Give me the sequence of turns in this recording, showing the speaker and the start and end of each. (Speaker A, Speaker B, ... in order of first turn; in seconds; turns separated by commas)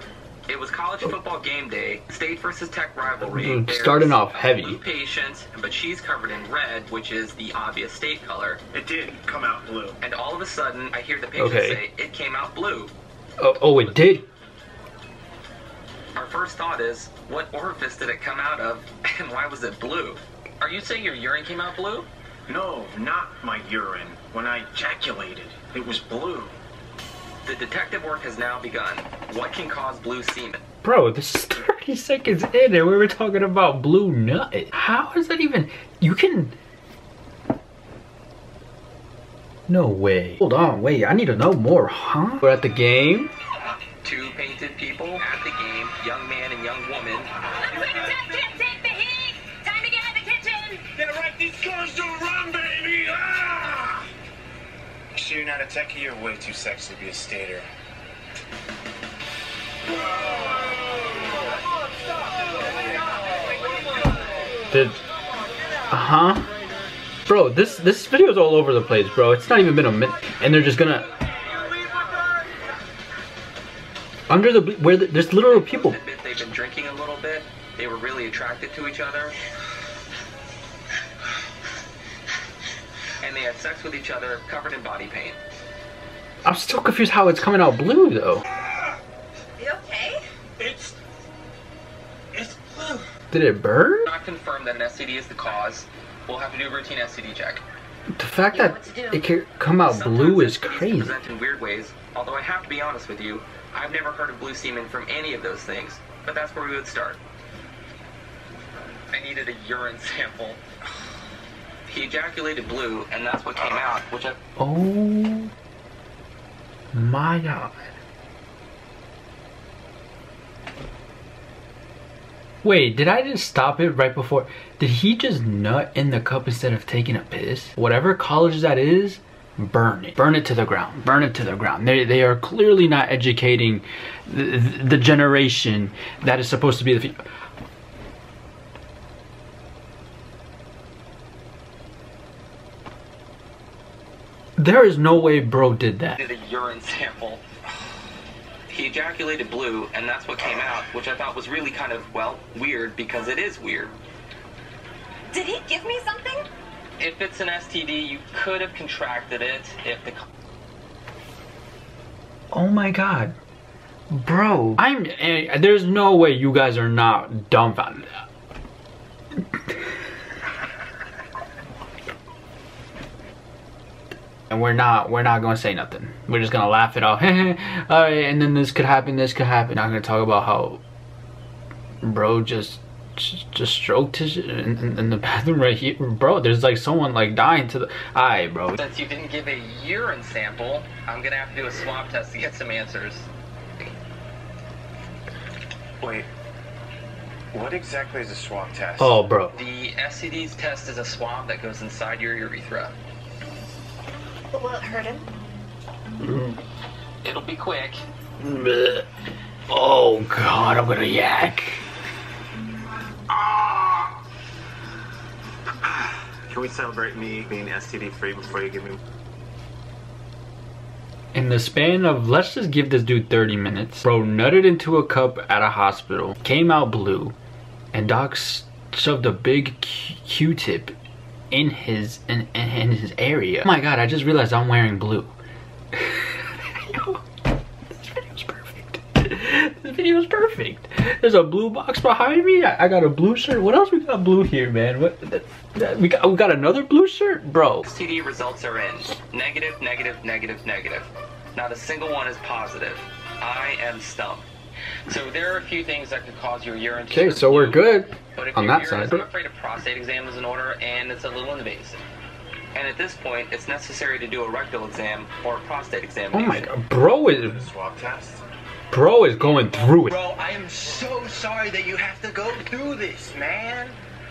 Speaker A: 0.5-8.6, Speaker B: 3.3-4.8, Speaker C: 8.7-10.0, Speaker A: 10.0-12.9, Speaker B: 11.3-11.8, Speaker B: 13.4-14.2, Speaker A: 16.1-22.1, Speaker C: 22.5-26.5, Speaker A: 27.4-30.6, Speaker B: 30.8-36.5, Speaker B: 39.7-43.3, Speaker A: 44.0-47.3, Speaker D: 47.6-50.9, Speaker C: 50.9-54.1, Speaker C: 55.1-57.7, Speaker B: 64.7-65.0, Speaker B: 65.9-66.5, Speaker B: 67.2-71.1, Speaker B: 74.3-76.0, Speaker A: 75.5-79.3, Speaker A: 83.2-85.4, Speaker B: 86.4-88.4, Speaker D: 89.6-90.2, Speaker C: 90.6-91.0, Speaker C: 92.3-93.1, Speaker B: 93.3-94.1, Speaker A: 94.1-97.6, Speaker B: 98.2-101.2, Speaker D: 98.5-99.2, Speaker A: 99.8-107.2, Speaker A: 109.1-110.6, Speaker A: 111.9-114.4, Speaker B: 114.6-115.5, Speaker B: 116.9-117.9, Speaker B: 122.6-137.2, Speaker B: 144.6-146.2, Speaker A: 146.2-147.4, Speaker A: 148.7-153.9, Speaker D: 155.3-156.5, Speaker A: 157.0-160.2, Speaker B: 162.5-163.3, Speaker B: 164.1-168.1, Speaker B: 174.5-180.8, Speaker B: 182.0-188.8, Speaker A: 188.8-193.3, Speaker C: 196.0-196.3, Speaker C: 197.5-199.2, Speaker B: 199.0-199.5, Speaker A: 199.5-202.9, Speaker D: 204.5-205.3, Speaker B: 206.2-206.6, Speaker A: 207.2-208.0, Speaker B: 208.4-209.0, Speaker B: 209.7-211.8, Speaker C: 213.3-214.0, Speaker C: 215.8-219.0, Speaker B: 221.3-227.3, Speaker B: 227.9-230.9, Speaker B: 231.5-235.3, Speaker B: 235.9-237.2, Speaker B: 237.9-247.8, Speaker A: 247.8-254.5, Speaker A: 255.1-262.0, Speaker B: 257.1-259.3, Speaker A: 262.7-266.7, Speaker B: 266.3-267.7, Speaker C: 267.4-268.4, Speaker B: 268.9-270.1, Speaker C: 270.0-274.0